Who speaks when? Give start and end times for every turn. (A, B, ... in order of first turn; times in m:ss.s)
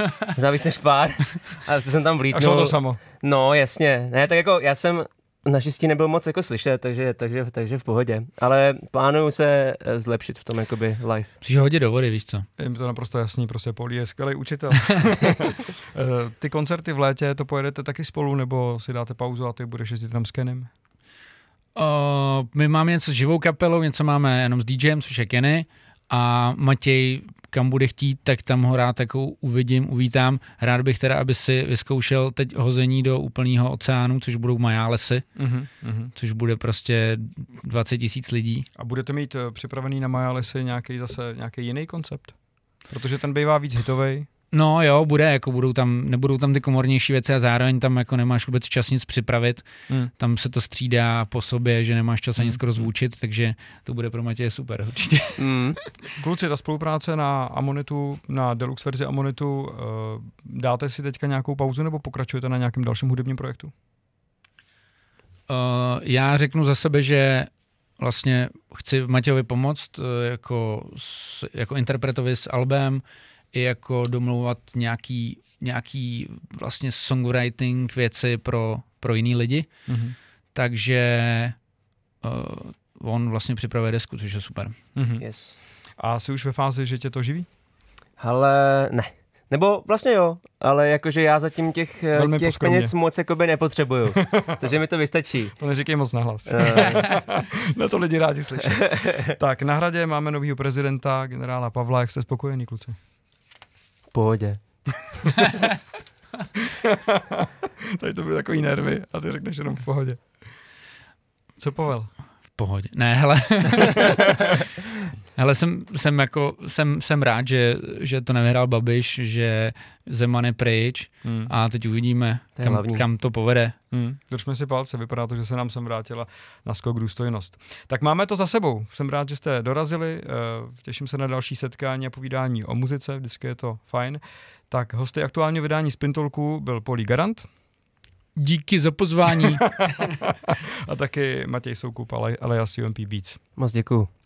0:00.3-0:11.3 A
0:02.3-0:03.0 B
0:11.4-0:12.5 C
0:12.6-0:20.7 B
0:21.7-0:35.3 C
0:35.4-0:36.1 B
0:36.1-0:38.6 C
0:38.8-0:44.3 B
0:44.5-0:56.0 C
0:52.4-0:52.8 B
0:55.4-0:55.8 A
0:56.2-1:03.7 B
1:05.5-1:19.7 C
1:19.9-1:20.2 B
1:20.5-1:21.6 C
1:22.2-1:24.8 C
1:24.9-1:25.2 B
1:25.2-1:25.6 A
1:26.0-1:27.5 B
1:28.2-1:35.6 A
1:32.1-1:32.9 B
1:34.2-1:34.6 B
1:35.6-1:43.0 B
1:36.5-1:37.2 A
1:38.8-1:39.3 A
1:44.1-1:45.1 A
1:46.8-1:50.3 B
1:51.6-1:52.1 B
1:52.6-1:54.5 C
1:55.3-2:03.8 C
2:01.2-2:01.5 B
2:02.6-2:03.0 A
2:03.9-2:17.5 B
2:18.4-2:19.6 C
2:19.3-2:23.4 B
2:23.6-2:24.1 A